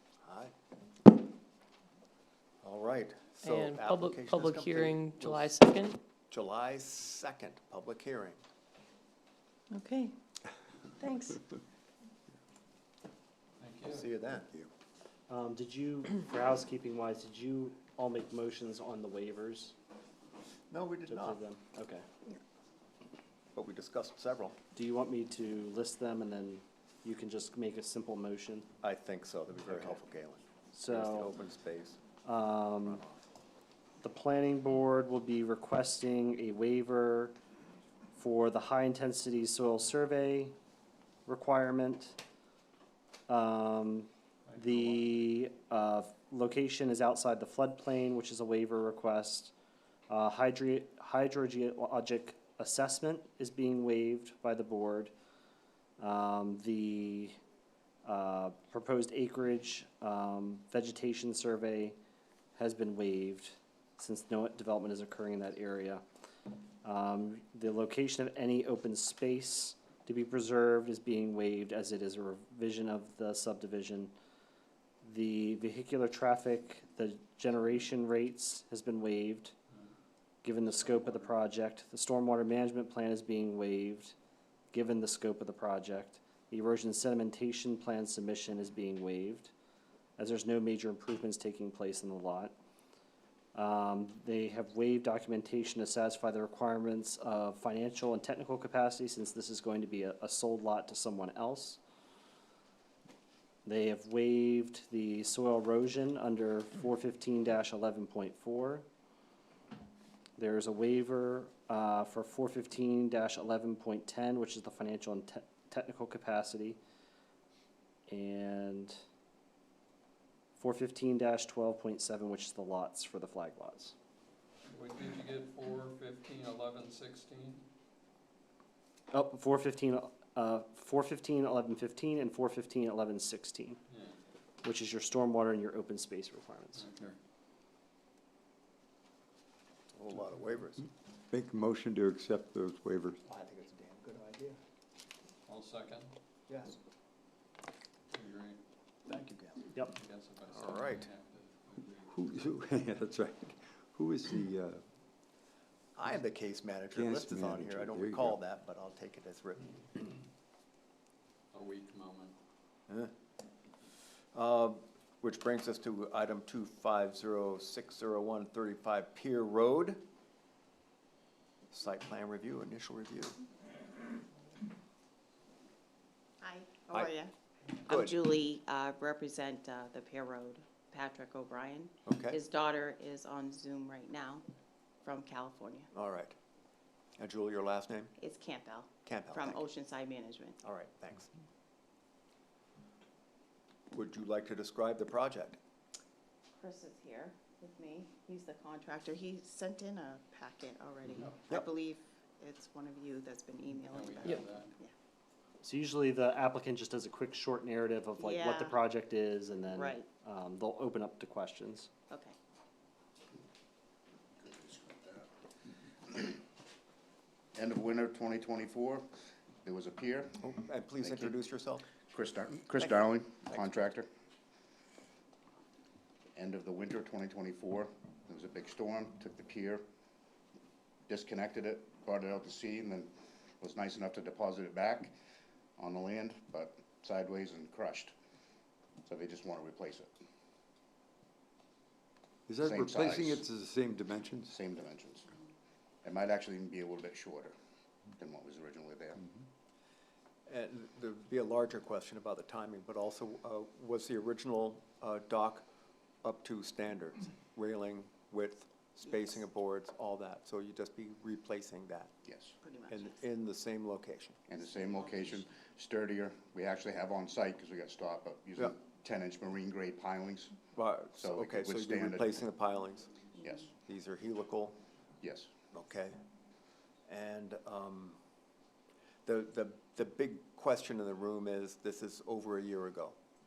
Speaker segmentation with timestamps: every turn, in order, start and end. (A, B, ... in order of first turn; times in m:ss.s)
0:00.2-0:00.5 A
0:02.6-0:05.7 A
0:03.4-0:06.0 B
0:06.3-0:08.4 A
0:09.7-0:10.1 C
0:11.0-0:11.4 C
0:13.6-0:14.1 D
0:13.9-0:14.5 A
0:15.3-0:19.7 E
0:20.7-0:21.4 A
0:21.1-0:22.0 E
0:23.5-0:24.6 A
0:24.7-0:28.7 E
0:28.8-0:32.0 A
0:30.7-0:31.3 E
0:32.2-0:33.0 E
0:32.8-0:33.2 A
0:34.0-0:37.4 E
0:38.1-0:40.5 E
0:41.3-0:42.2 E
0:43.3-0:49.5 E
0:50.1-0:55.1 E
0:56.0-0:57.4 E
0:58.0-1:02.0 E
1:02.6-1:06.0 E
1:06.8-1:14.1 E
1:15.0-1:19.5 E
1:20.4-1:24.1 E
1:20.6-1:21.3 D
1:24.7-1:29.5 E
1:30.2-1:32.5 E
1:33.5-1:41.8 E
1:43.6-1:48.8 E
1:50.4-1:56.8 E
1:58.1-1:59.0 E
2:00.6-2:03.9 E
2:04.7-2:07.6 D
2:09.1-2:13.8 E
2:13.9-2:14.2 D
2:14.6-2:16.8 E
2:16.7-2:17.2 D
2:19.9-2:20.9 A
2:21.3-2:23.2 F
2:23.2-2:24.6 A
2:25.5-2:26.1 D
2:26.5-2:26.8 A
2:28.1-2:28.6 D
2:29.0-2:29.7 A
2:29.8-2:32.4 D
2:30.5-2:31.1 A
2:32.1-2:34.8 F
2:36.0-2:40.0 A
2:36.9-2:38.4 F
2:41.5-2:42.4 D
2:44.3-2:50.0 A
2:51.7-2:53.4 A
2:56.4-2:57.3 C
2:57.8-3:04.4 C
2:57.9-2:58.2 A
3:02.0-3:02.4 A
3:05.0-3:05.9 C
3:05.9-3:06.4 A
3:07.2-3:08.1 A
3:08.2-3:10.6 C
3:09.0-3:09.6 A
3:10.6-3:11.3 A
3:13.9-3:15.6 A
3:16.6-3:24.9 C
3:23.9-3:24.7 D
3:25.6-3:31.9 E
3:28.2-3:28.8 C
3:29.7-3:30.1 C
3:32.1-3:32.4 C
3:34.4-3:35.3 G
3:37.5-3:39.1 G
3:39.6-3:40.4 G
3:40.4-3:41.9 A
3:41.0-3:41.4 G
3:42.1-3:44.1 G
3:46.4-3:49.8 G
3:51.1-3:55.1 G
3:55.8-3:58.1 G
3:59.0-4:00.1 G
4:02.5-4:04.5 F
4:02.6-4:03.4 G
4:04.5-4:05.3 G
4:06.0-4:07.5 G
4:08.2-4:09.3 G
4:10.4-4:15.6 A
4:16.2-4:22.1 A
4:22.2-4:22.6 G
4:22.6-4:23.2 C
4:22.9-4:24.4 A
4:24.5-4:30.6 G
4:24.8-4:25.4 C
4:30.7-4:34.8 A
4:31.2-4:32.4 G
4:33.4-4:33.7 G
4:35.2-4:35.5 G
4:35.7-4:36.2 A
4:37.1-4:38.2 A
4:39.2-4:43.2 A